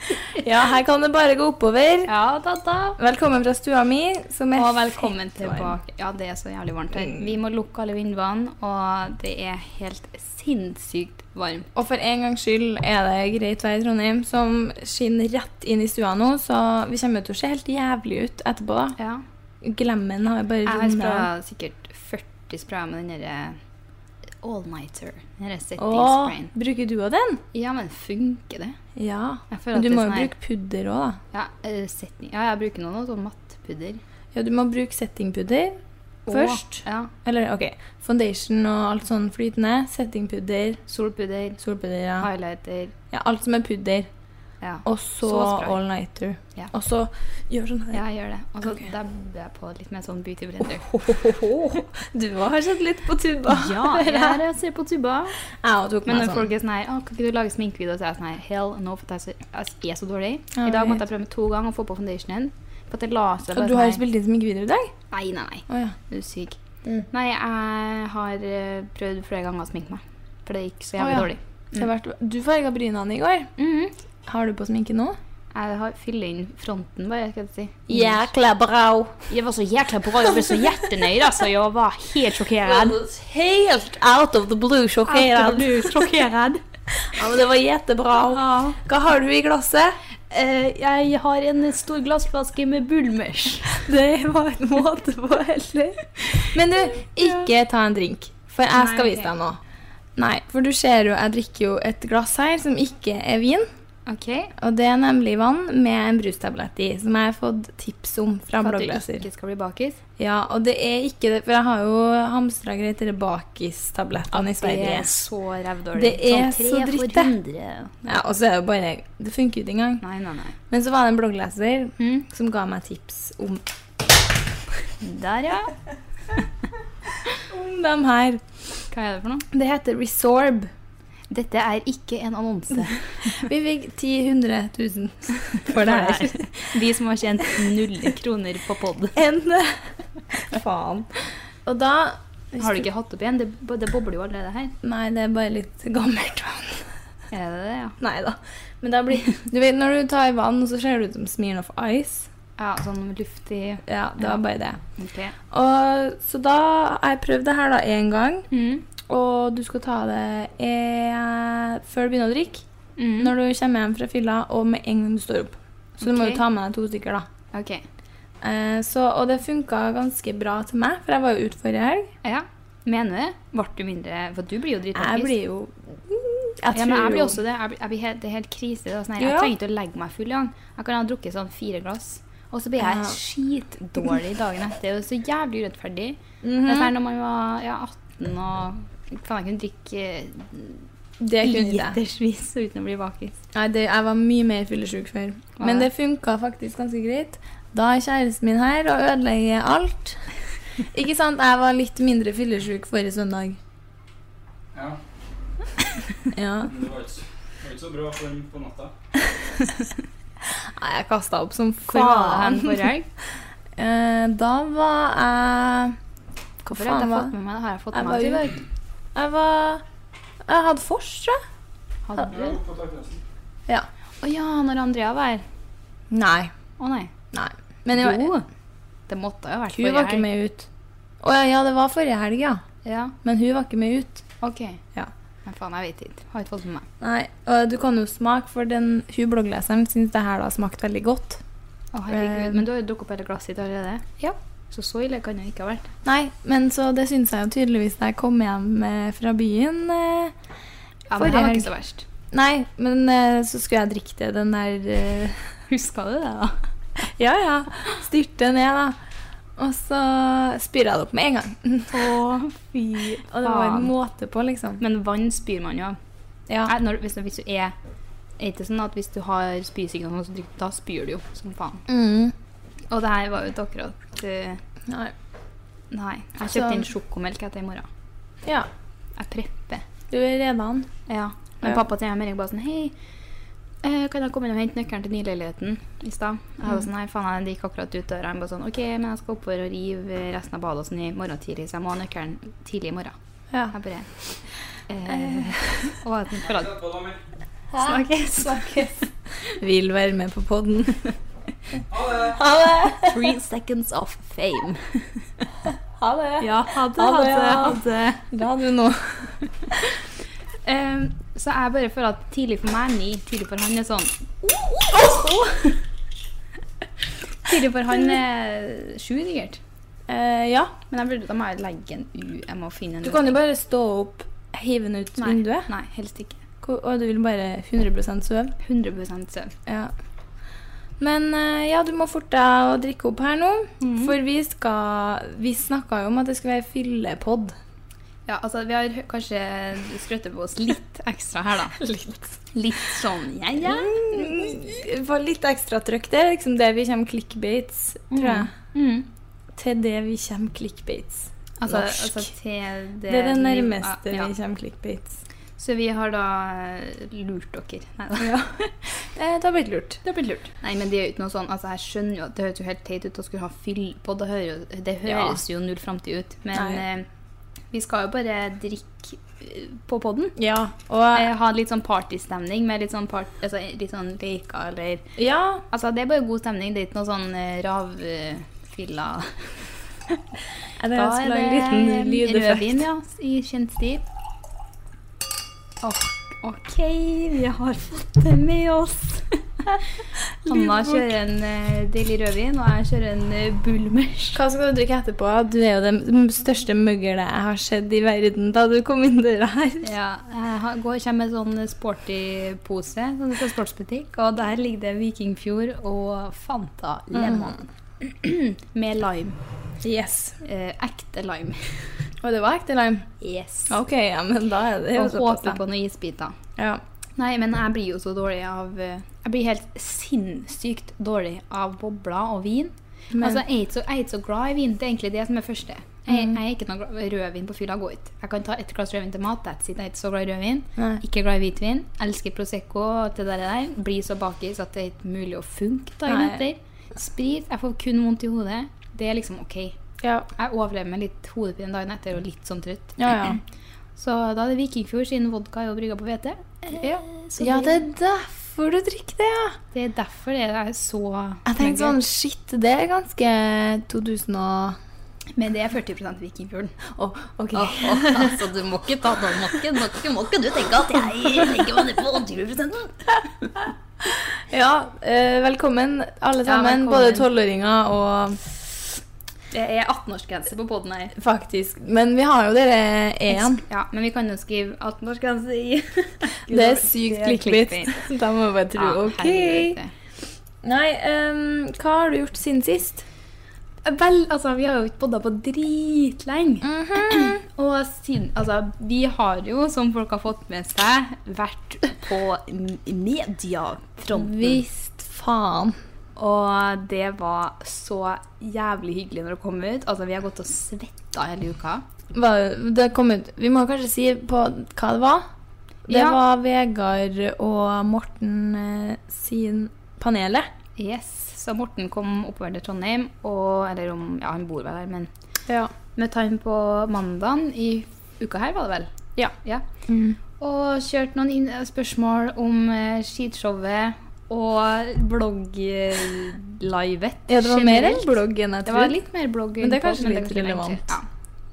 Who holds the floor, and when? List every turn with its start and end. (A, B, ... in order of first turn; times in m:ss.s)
0:00.4-0:02.1 A
0:02.1-0:03.0 B
0:03.0-0:05.7 A
0:04.5-0:11.7 B
0:11.8-0:19.0 A
0:19.0-0:19.2 B
0:19.6-0:21.3 A
0:20.6-0:23.6 B
0:24.4-0:26.5 B
0:25.8-0:27.4 A
0:27.5-0:28.8 B
0:29.0-0:31.2 A
0:29.5-0:30.3 B
0:31.3-0:34.0 B
0:34.3-0:40.8 A
0:36.3-0:37.1 B
0:40.9-0:41.6 B
0:41.6-0:42.3 A
0:42.2-0:42.9 B
0:43.1-0:44.1 A
0:44.6-0:45.8 B
0:44.8-0:48.0 A
0:47.9-0:50.9 B
0:50.8-0:54.4 A
0:53.5-0:55.4 B
0:55.6-0:56.5 A
0:56.1-1:04.0 B
1:00.6-1:01.0 A
1:03.5-1:04.9 A
1:05.1-1:06.6 B
1:05.7-1:06.0 A
1:07.1-1:11.9 B
1:11.0-1:13.5 A
1:13.6-1:13.9 B
1:14.3-1:15.2 A
1:15.6-1:18.2 B
1:17.9-1:19.2 A
1:19.3-1:23.0 B
1:22.6-1:26.1 A
1:25.1-1:26.6 B
1:27.0-1:30.0 A
1:28.3-1:28.8 B
1:30.3-1:33.8 B
1:33.7-1:39.6 A
1:38.8-1:39.3 B
1:40.2-1:43.7 A
1:44.1-1:44.5 B
1:44.6-1:49.2 A
1:48.6-1:50.0 B
1:50.2-1:55.1 A
1:54.3-1:58.0 B
1:56.0-1:57.3 A
1:58.0-2:00.0 A
2:00.0-2:00.6 B
2:00.7-2:03.6 A
2:02.0-2:02.3 B
2:05.0-2:05.7 B
2:07.4-2:08.4 A
2:08.9-2:09.5 B
2:09.5-2:10.7 A
2:11.3-2:13.4 B
2:13.2-2:16.7 A
2:15.6-2:19.2 B
2:19.2-2:21.1 A
2:21.6-2:22.8 A
2:22.6-2:24.8 B
2:24.8-2:26.9 A
2:27.3-2:28.0 B
2:28.0-2:32.3 A
2:32.6-2:34.4 B
2:33.9-2:34.8 A
2:35.0-2:35.4 B
2:35.5-2:38.5 A
2:38.5-2:38.9 B
2:39.1-2:42.6 A
2:43.0-2:43.3 B
2:43.2-2:47.3 A
2:46.0-2:46.4 B
2:47.5-2:47.8 B
2:48.4-2:52.1 A
2:52.2-2:55.3 B
2:55.0-2:57.4 A
2:56.7-3:10.8 B
2:59.2-2:59.5 A
3:02.8-3:03.2 A
3:06.4-3:06.9 A
3:11.2-3:12.0 A
3:11.4-3:13.4 B
3:13.5-3:20.2 A
3:15.6-3:15.9 B
3:20.9-3:23.6 A
3:24.7-3:25.0 C
3:26.3-3:26.7 A
3:26.7-3:28.9 C
3:30.8-3:32.9 A
3:31.9-3:33.1 B
3:33.8-3:36.0 A
3:36.6-3:38.6 B
3:36.7-3:37.3 A
3:37.9-3:38.5 A
3:39.2-3:39.8 A
3:40.4-3:41.4 A
3:42.1-3:42.6 B
3:42.2-3:43.2 C
3:44.2-3:45.4 B
3:46.1-3:46.5 A
3:46.8-3:47.1 B
3:47.3-3:48.3 A
3:47.9-3:48.4 B
3:49.1-3:50.3 B
3:49.8-3:50.7 A
3:51.2-3:52.6 A
3:52.8-3:53.2 B
3:53.2-3:54.2 A
3:54.4-3:54.8 B
3:55.4-3:56.9 B
3:57.0-4:01.4 A
4:01.9-4:05.9 B
4:02.1-4:02.6 A
4:06.0-4:10.3 A
4:11.1-4:12.0 B
4:11.2-4:11.7 A
4:12.3-4:15.4 A
4:15.7-4:16.6 B
4:17.0-4:19.0 A
4:19.6-4:22.1 A
4:21.9-4:23.9 B
4:23.3-4:24.8 A
4:24.8-4:26.0 B
4:26.6-4:27.8 B
4:28.4-4:31.9 B
4:31.9-4:32.3 A
4:32.9-4:34.6 B
4:34.9-4:35.1 A
4:35.9-4:37.9 B
4:36.5-4:36.8 A
4:39.2-4:39.8 B
4:40.1-4:40.9 A
4:41.1-4:42.9 B
4:43.8-4:53.2 B
4:53.7-4:54.1 B
4:54.9-4:56.8 B
4:55.1-4:55.8 A
4:56.6-4:57.2 C
4:57.7-4:58.9 A
4:57.8-4:58.9 B
4:59.5-5:01.0 A
5:02.0-5:02.3 C
5:02.0-5:03.3 A
5:03.0-5:05.3 B
5:06.0-5:09.8 A
5:06.4-5:08.2 B
5:10.6-5:15.8 B
5:17.4-5:19.6 B
5:20.1-5:20.8 A
5:20.9-5:23.4 B
5:23.0-5:25.7 A
5:25.2-5:26.4 B
5:26.6-5:28.6 A
5:28.6-5:29.5 B
5:29.7-5:29.9 A
5:31.0-5:37.6 A
5:33.8-5:34.2 B
5:38.3-5:41.8 B
5:41.8-5:42.4 A
5:42.5-5:44.6 B
5:43.6-5:48.5 A
5:48.1-5:49.1 B
5:49.6-5:52.3 A
5:51.6-5:54.3 B
5:53.1-5:55.1 A
5:55.6-5:58.7 B
5:59.2-6:00.0 A
6:00.0-6:07.1 B
6:05.1-6:05.4 A
6:06.6-6:06.8 A
6:07.7-6:10.4 B
6:10.4-6:11.3 A
6:11.1-6:15.1 B
6:15.2-6:15.6 A
6:15.7-6:19.6 B
6:20.8-6:22.8 A
6:20.9-6:24.0 B
6:25.8-6:34.4 B
6:30.4-6:31.1 A
6:34.4-6:39.9 A
6:39.8-6:49.4 B
6:47.1-6:47.6 A
6:49.8-6:50.4 A
6:50.4-6:51.9 B
6:52.2-6:53.1 A
6:53.2-6:53.8 B
6:53.7-6:55.6 A
6:54.9-6:56.4 B
6:56.6-6:56.8 A
6:57.2-7:19.8 B
7:03.1-7:03.4 A
7:06.1-7:06.4 A
7:10.8-7:11.0 A
7:16.1-7:16.4 A
7:20.0-7:20.3 A
7:20.4-7:23.4 B
7:23.0-7:23.4 A
7:24.0-7:27.8 B
7:26.8-7:29.6 A
7:29.7-7:32.0 B
7:31.4-7:34.8 A
7:35.4-7:36.8 B
7:36.9-7:38.4 A
7:37.5-7:43.3 B
7:44.1-7:48.4 A
7:46.4-7:47.3 B
7:49.5-7:51.2 B
7:51.2-7:53.6 A
7:53.3-7:58.0 B
7:56.5-7:59.8 A
7:58.8-7:59.9 B
8:00.6-8:03.0 A
8:03.8-8:14.6 B
8:06.6-8:07.4 A
8:14.1-8:15.8 A
8:16.2-8:21.8 B
8:22.1-8:25.2 A
8:25.9-8:30.5 A
8:25.9-8:26.2 B
8:30.8-8:35.1 B
8:36.0-8:39.6 B
8:39.9-8:40.2 A
8:40.4-8:51.1 B
8:47.3-8:49.0 A
8:49.6-8:50.9 A